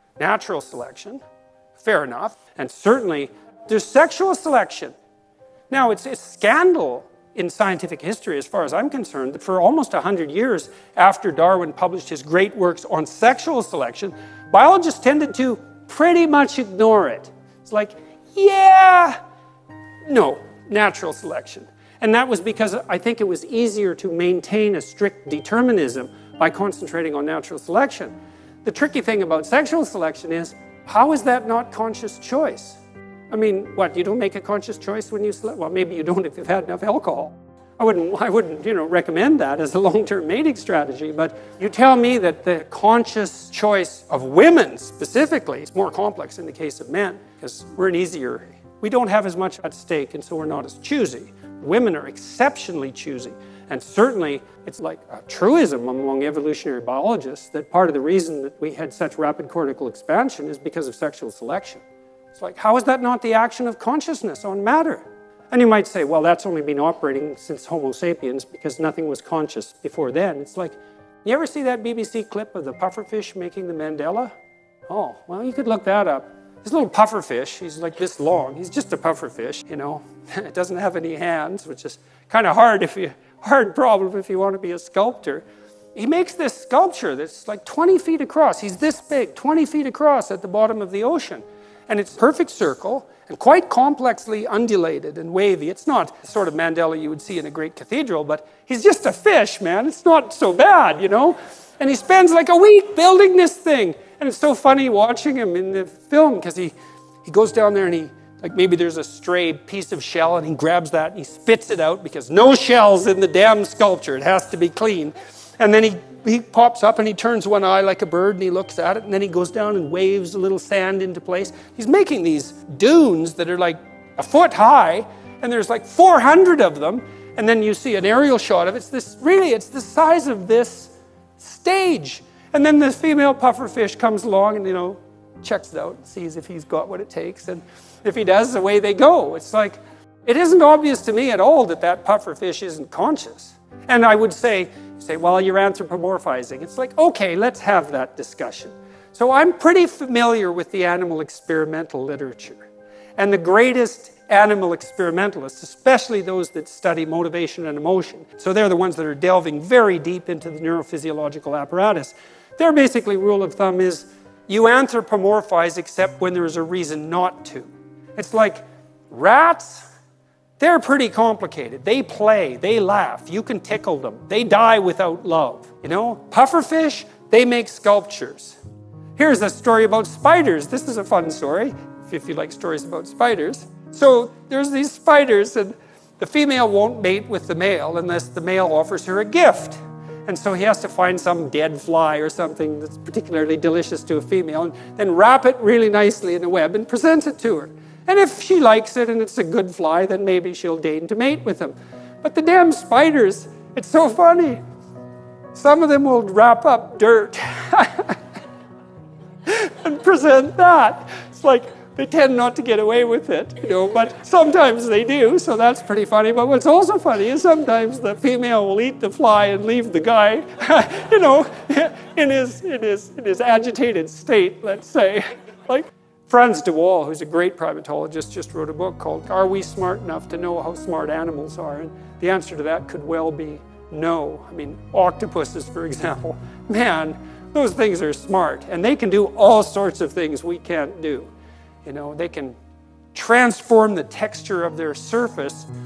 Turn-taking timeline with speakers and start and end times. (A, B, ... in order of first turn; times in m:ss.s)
0:00.2-0:01.2 A
0:01.8-0:04.9 A
0:05.7-0:19.2 A
0:20.1-0:32.8 A
0:33.3-1:14.3 A
1:14.9-1:25.4 A
1:26.0-2:32.6 A
2:33.2-2:49.9 A
2:50.6-2:58.6 A
2:59.2-3:24.6 A
3:25.5-3:28.2 A
3:29.5-4:01.3 A
4:01.8-4:02.6 A
4:03.1-4:05.7 A